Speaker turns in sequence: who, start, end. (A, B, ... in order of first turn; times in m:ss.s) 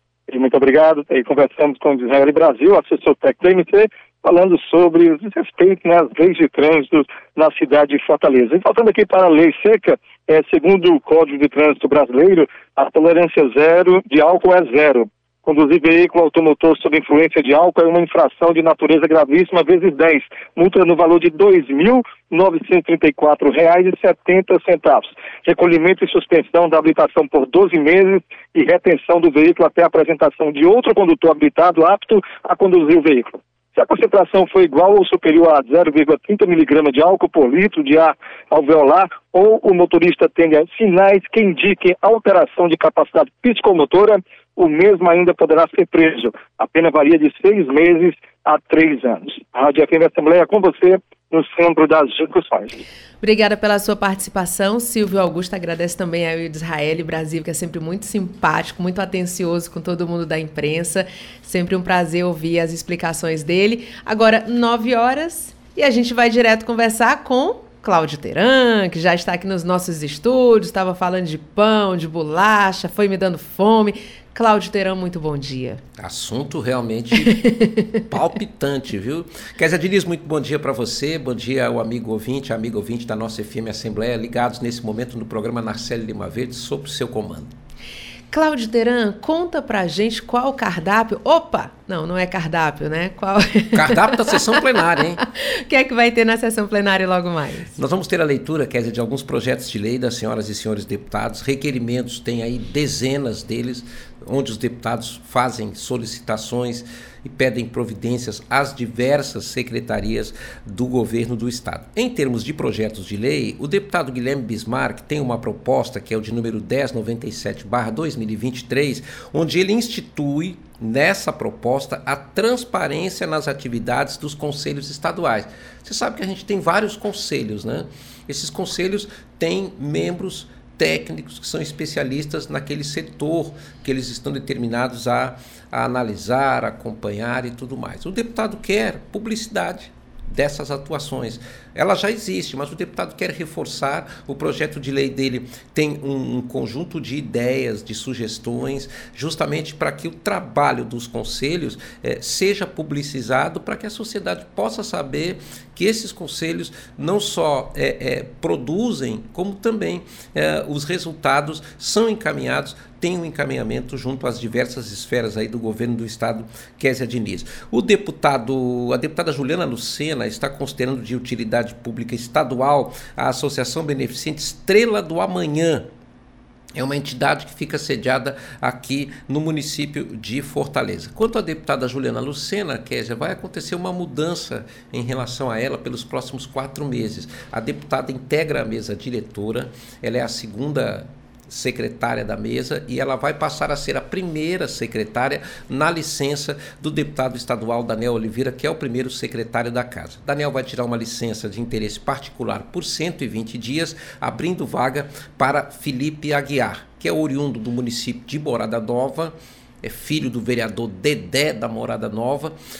0:00.3-0:52.8 A
0:53.2-1:15.8 B
1:16.0-1:17.3 C
1:17.3-1:17.8 B
1:18.1-1:27.5 C
1:28.3-1:34.3 B
1:33.7-1:35.2 C
1:35.7-1:37.7 B
1:37.8-2:55.9 C
2:56.8-3:32.5 C